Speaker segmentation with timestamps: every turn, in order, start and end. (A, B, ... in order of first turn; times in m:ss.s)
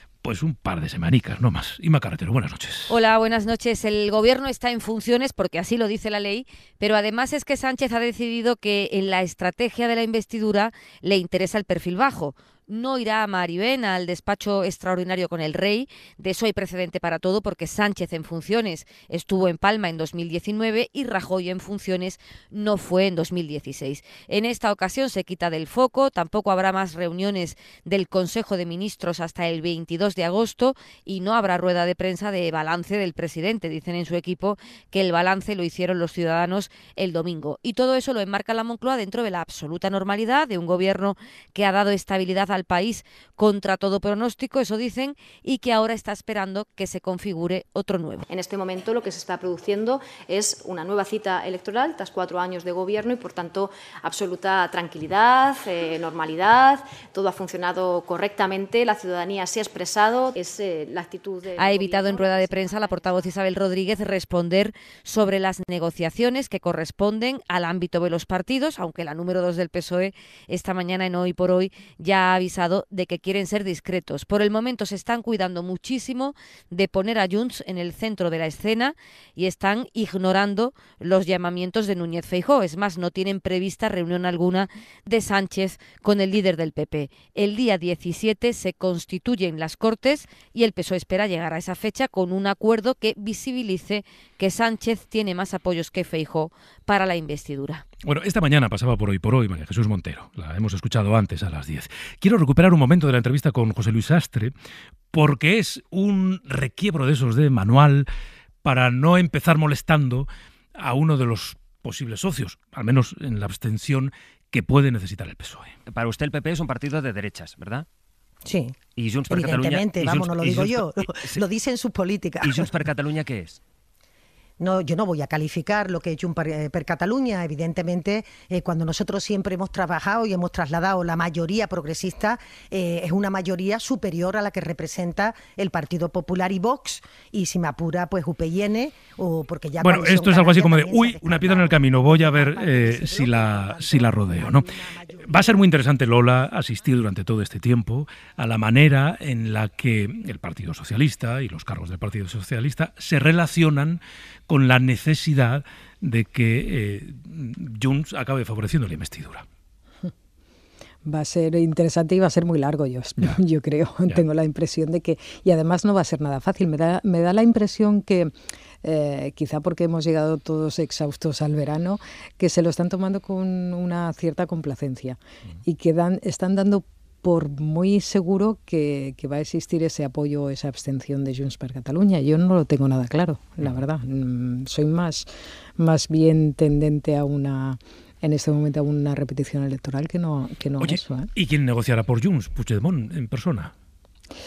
0:00.2-0:02.9 A
0:02.9-0:48.2 B
0:48.3-1:03.4 C
1:01.6-1:37.8 B
1:38.0-1:44.5 A
1:45.1-1:48.1 A
1:48.6-1:55.8 A
1:55.9-1:57.9 D
1:58.5-1:58.8 E
1:59.0-2:01.5 D
1:59.3-2:02.8 E
2:02.4-2:03.6 D
2:04.6-2:25.6 E
2:19.8-2:39.4 A
2:41.0-2:48.3 F
2:48.8-3:11.3 F
3:10.8-3:13.7 A